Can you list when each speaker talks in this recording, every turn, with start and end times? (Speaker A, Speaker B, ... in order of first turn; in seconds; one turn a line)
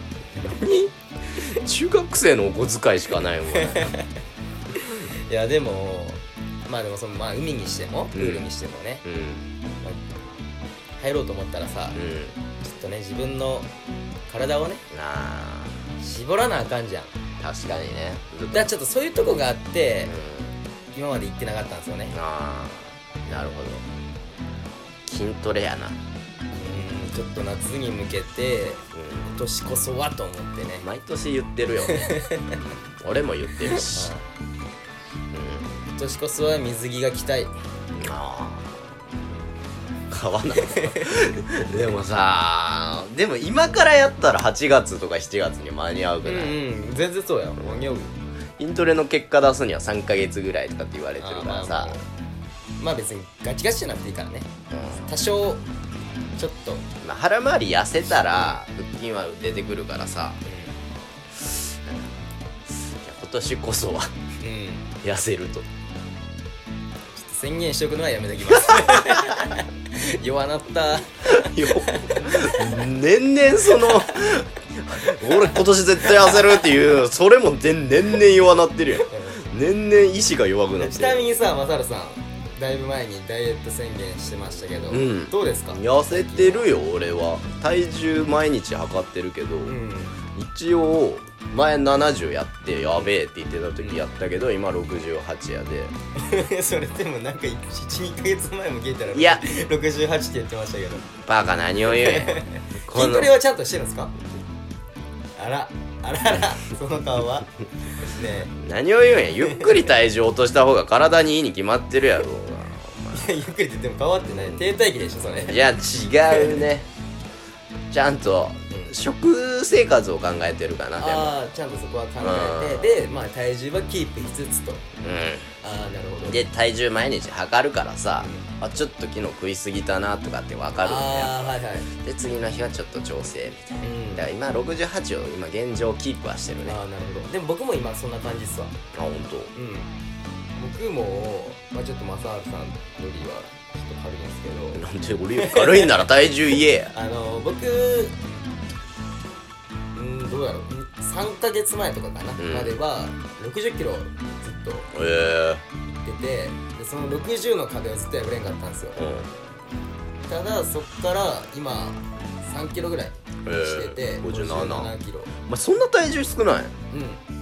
Speaker A: 0.3-4.0
Speaker B: 3.5-4.2
Speaker B: 4.7-9.0
Speaker A: 8.1-8.5
Speaker A: 9.0-9.5
Speaker B: 11.0-12.0
Speaker A: 11.9-12.4
Speaker B: 12.6-13.7
Speaker B: 14.3-14.8
Speaker A: 14.9-15.8
Speaker B: 16.0-17.1
Speaker A: 17.4-18.7
Speaker B: 18.5-20.1
Speaker A: 20.1-20.6
Speaker B: 20.9-22.2
Speaker A: 22.1-23.9
Speaker A: 25.1-26.0
Speaker B: 26.6-30.9
Speaker A: 28.9-29.4
Speaker A: 30.8-34.1
Speaker B: 31.9-32.6
Speaker B: 33.6-34.2
Speaker A: 35.3-35.9
Speaker B: 35.9-37.6
Speaker A: 37.9-38.9
Speaker A: 40.1-46.6
Speaker B: 40.6-41.1
Speaker B: 46.2-48.1
Speaker A: 48.6-52.0
Speaker B: 51.2-52.0
Speaker B: 52.8-54.5
Speaker A: 54.7-55.1
Speaker B: 55.0-55.6
Speaker B: 56.4-56.9
Speaker A: 57.0-60.4
Speaker B: 58.2-58.6
Speaker B: 60.5-60.8
Speaker A: 61.4-64.1
Speaker B: 64.4-64.9
Speaker A: 65.0-65.7
Speaker B: 67.2-72.7
Speaker A: 68.6-69.5
Speaker A: 71.3-81.4
Speaker B: 76.2-76.5
Speaker B: 79.1-79.4
Speaker B: 80.8-86.7
Speaker A: 84.9-89.8
Speaker B: 89.7-90.2
Speaker A: 90.3-96.0
Speaker B: 96.2-101.1
Speaker A: 99.1-99.5
Speaker A: 101.2-103.4
Speaker B: 101.9-104.1
Speaker B: 105.4-108.6
Speaker A: 108.6-113.5
Speaker B: 113.1-115.6
Speaker A: 114.3-114.7
Speaker A: 115.3-116.9
Speaker B: 116.2-116.7
Speaker A: 117.9-121.4
Speaker B: 121.0-124.8
Speaker A: 122.2-123.0
Speaker A: 125.0-125.5
Speaker B: 125.6-126.4
Speaker A: 126.3-136.8
Speaker B: 128.2-128.5
Speaker B: 130.8-131.9
Speaker B: 133.8-134.3
Speaker B: 136.6-138.8
Speaker A: 138.9-139.5
Speaker B: 139.6-139.9
Speaker B: 140.6-144.9
Speaker A: 144.7-146.9
Speaker B: 145.4-146.0
Speaker B: 146.9-148.2
Speaker B: 149.9-154.9
Speaker A: 152.4-152.8
Speaker A: 154.9-155.6
Speaker B: 155.8-159.0
Speaker A: 159.0-159.3
Speaker B: 160.3-165.3
Speaker A: 163.5-164.9
Speaker A: 165.5-166.8
Speaker B: 166.9-167.2